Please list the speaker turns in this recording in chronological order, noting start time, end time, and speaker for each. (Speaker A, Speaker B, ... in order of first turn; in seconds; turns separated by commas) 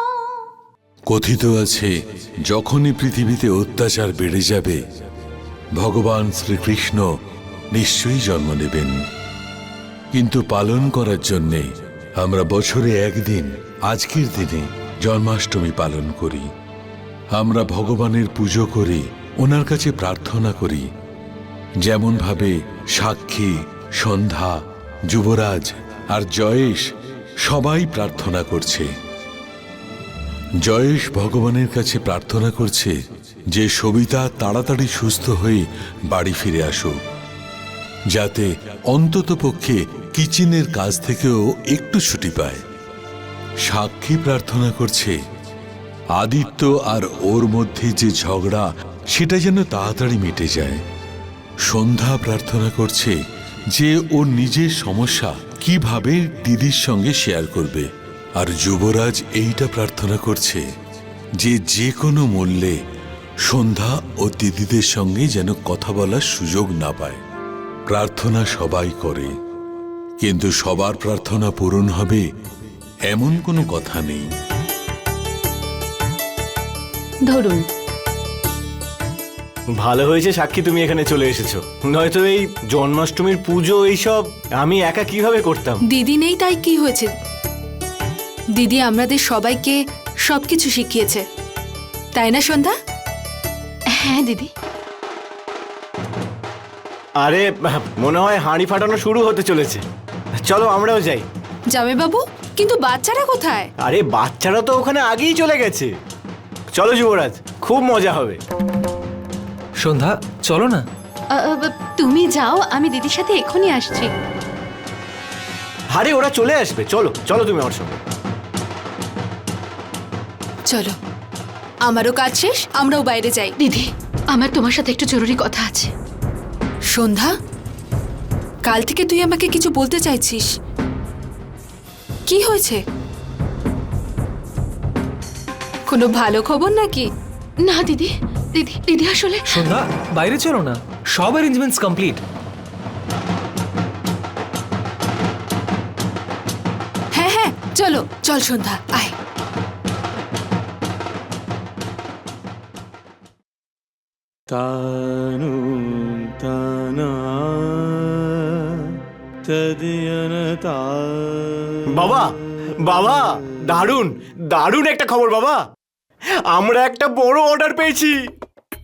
Speaker A: 1.1-1.9, Speaker A: 2.5-4.8, Speaker A: 5.8-7.0, Speaker A: 7.7-8.9, Speaker A: 10.1-11.6, Speaker A: 12.2-16.4, Speaker A: 17.3-20.8, Speaker A: 21.8-24.5, Speaker A: 25.1-26.8, Speaker A: 27.4-28.9, Speaker A: 30.6-32.9, Speaker A: 33.5-36.9, Speaker A: 38.1-42.6, Speaker A: 43.7-45.1, Speaker A: 46.1-50.8, Speaker A: 51.7-53.1, Speaker A: 53.7-57.9, Speaker A: 58.4-60.6, Speaker A: 61.4-62.7, Speaker A: 63.5-67.2, Speaker A: 67.9-69.3, Speaker A: 70.2-72.2, Speaker A: 73.1-74.2, Speaker B: 77.3-77.6, Speaker C: 79.8-85.8, Speaker D: 85.9-87.1, Speaker D: 88.6-89.7, Speaker B: 88.6-89.1, Speaker D: 90.2-91.2, Speaker D: 92.1-92.7, Speaker B: 94.0-94.5, Speaker C: 97.2-99.8, Speaker C: 100.4-101.3, Speaker D: 101.7-103.7, Speaker C: 103.8-105.9, Speaker C: 106.7-108.4, Speaker E: 109.8-110.8, Speaker B: 111.3-114.1, Speaker C: 115.9-118.0, Speaker D: 121.8-123.5, Speaker B: 123.6-125.9, Speaker D: 126.9-127.3, Speaker D: 128.7-130.5, Speaker D: 132.3-132.8, Speaker D: 135.9-137.1, Speaker B: 137.6-139.7, Speaker E: 139.5-142.2, Speaker D: 147.1-149.1, Speaker C: 161.9-162.3, Speaker C: 162.8-165.6, Speaker C: 166.5-168.2